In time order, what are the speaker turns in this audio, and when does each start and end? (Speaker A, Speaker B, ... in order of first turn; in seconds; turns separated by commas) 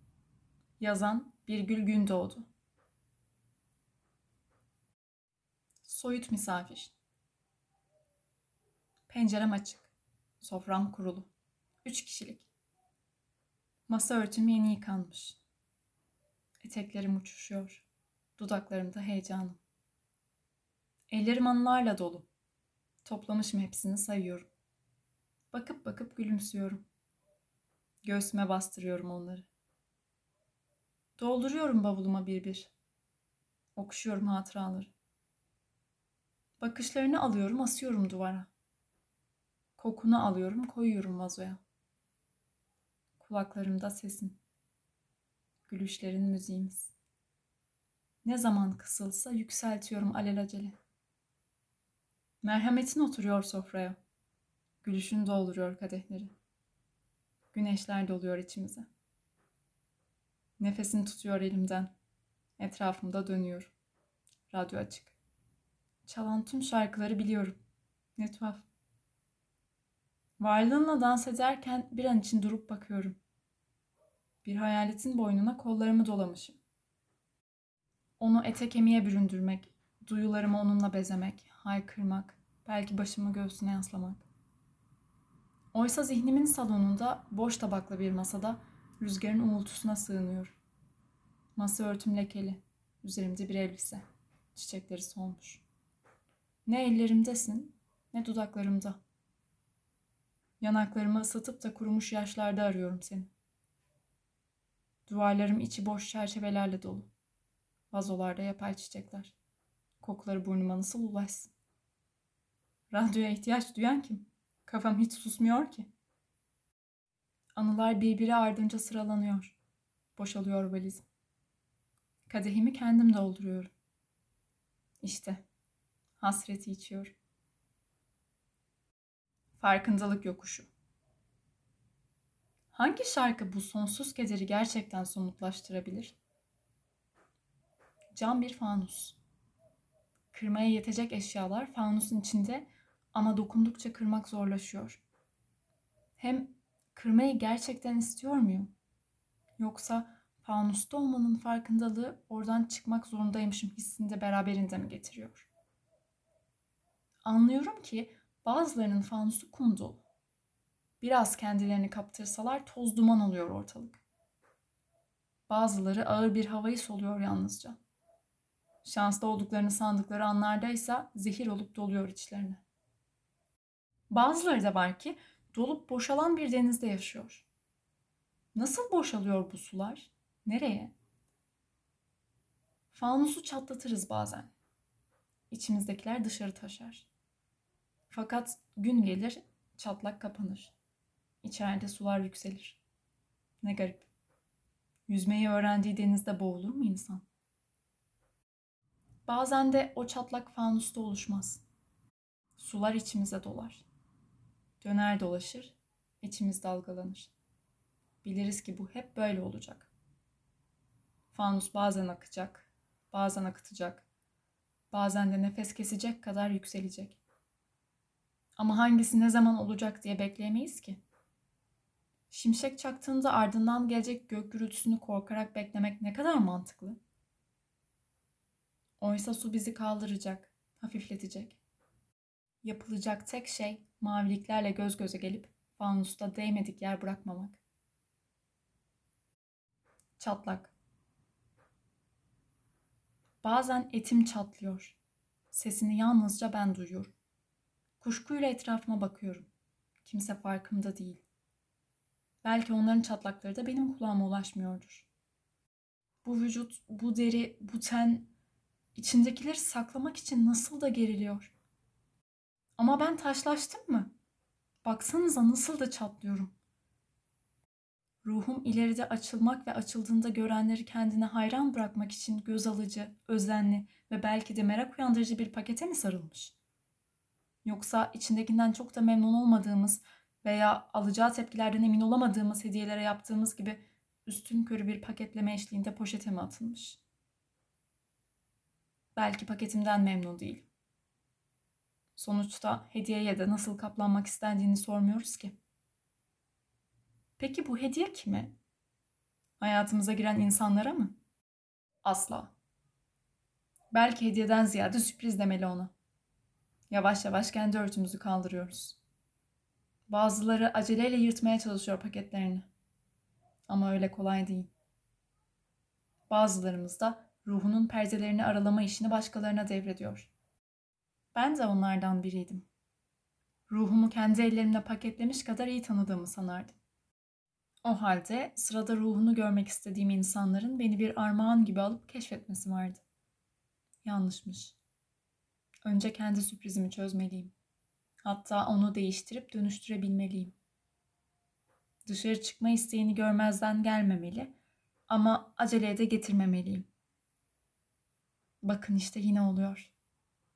Speaker A: 0.8-2.5, Speaker A: 5.8-6.9, Speaker A: 9.1-11.3, Speaker A: 11.8-12.5, Speaker A: 13.9-15.4, Speaker A: 16.6-17.8, Speaker A: 18.4-19.6, Speaker A: 21.1-22.3, Speaker A: 23.0-24.5, Speaker A: 25.5-26.8, Speaker A: 28.0-29.5, Speaker A: 31.2-32.7, Speaker A: 33.8-34.9, Speaker A: 36.6-38.5, Speaker A: 39.8-41.6, Speaker A: 43.2-44.4, Speaker A: 45.7-46.9, Speaker A: 48.2-50.7, Speaker A: 52.4-54.0, Speaker A: 54.8-56.3, Speaker A: 57.5-58.9, Speaker A: 60.6-61.9, Speaker A: 62.6-63.7, Speaker A: 64.5-65.2, Speaker A: 66.0-67.6, Speaker A: 68.2-68.6, Speaker A: 70.4-73.2, Speaker A: 74.4-76.6, Speaker A: 78.2-84.2, Speaker A: 85.7-90.6, Speaker A: 91.5-95.6, Speaker A: 96.7-99.0, Speaker A: 100.6-103.3, Speaker A: 105.0-107.1, Speaker A: 107.9-109.3, Speaker A: 110.0-111.5, Speaker A: 112.9-115.9, Speaker A: 117.5-119.6, Speaker A: 120.2-121.0, Speaker A: 122.3-123.7, Speaker A: 125.0-125.4, Speaker A: 126.2-127.1, Speaker A: 129.6-130.7, Speaker A: 132.7-136.2, Speaker A: 138.1-139.2, Speaker A: 140.3-145.0, Speaker A: 146.2-148.7, Speaker A: 149.6-155.5, Speaker A: 157.2-160.0, Speaker A: 161.0-164.0, Speaker A: 165.5-167.8, Speaker A: 168.8-172.6, Speaker A: 174.1-177.5, Speaker A: 178.5-180.9, Speaker A: 182.9-184.5, Speaker A: 185.5-187.1, Speaker A: 188.1-190.7, Speaker A: 191.4-192.8, Speaker A: 193.6-194.1, Speaker A: 195.1-197.2, Speaker A: 199.2-201.6, Speaker A: 202.6-203.8, Speaker A: 204.8-207.3, Speaker A: 208.2-209.9, Speaker A: 211.3-214.0, Speaker A: 214.9-217.2, Speaker A: 218.6-221.0, Speaker A: 222.3-227.0, Speaker A: 229.0-231.6, Speaker A: 232.6-237.6, Speaker A: 240.2-240.7, Speaker A: 243.4-245.0, Speaker A: 245.5-247.1, Speaker A: 248.0-249.5, Speaker A: 250.0-251.2, Speaker A: 252.4-255.1, Speaker A: 256.2-258.3, Speaker A: 258.9-261.5, Speaker A: 262.8-264.1, Speaker A: 264.8-266.5, Speaker A: 268.2-276.6, Speaker A: 277.6-287.0, Speaker A: 289.1-290.7, Speaker A: 292.1-295.6, Speaker A: 297.4-298.5, Speaker A: 299.6-301.1, Speaker A: 302.0-302.5, Speaker A: 303.9-305.9, Speaker A: 306.9-309.0, Speaker A: 310.1-312.7, Speaker A: 313.7-314.7, Speaker A: 316.3-320.3, Speaker A: 321.3-322.6, Speaker A: 323.7-326.7, Speaker A: 327.8-333.0, Speaker A: 334.0-334.8, Speaker A: 335.8-337.5, Speaker A: 338.2-340.5, Speaker A: 342.0-344.5, Speaker A: 345.1-346.9, Speaker A: 348.6-349.9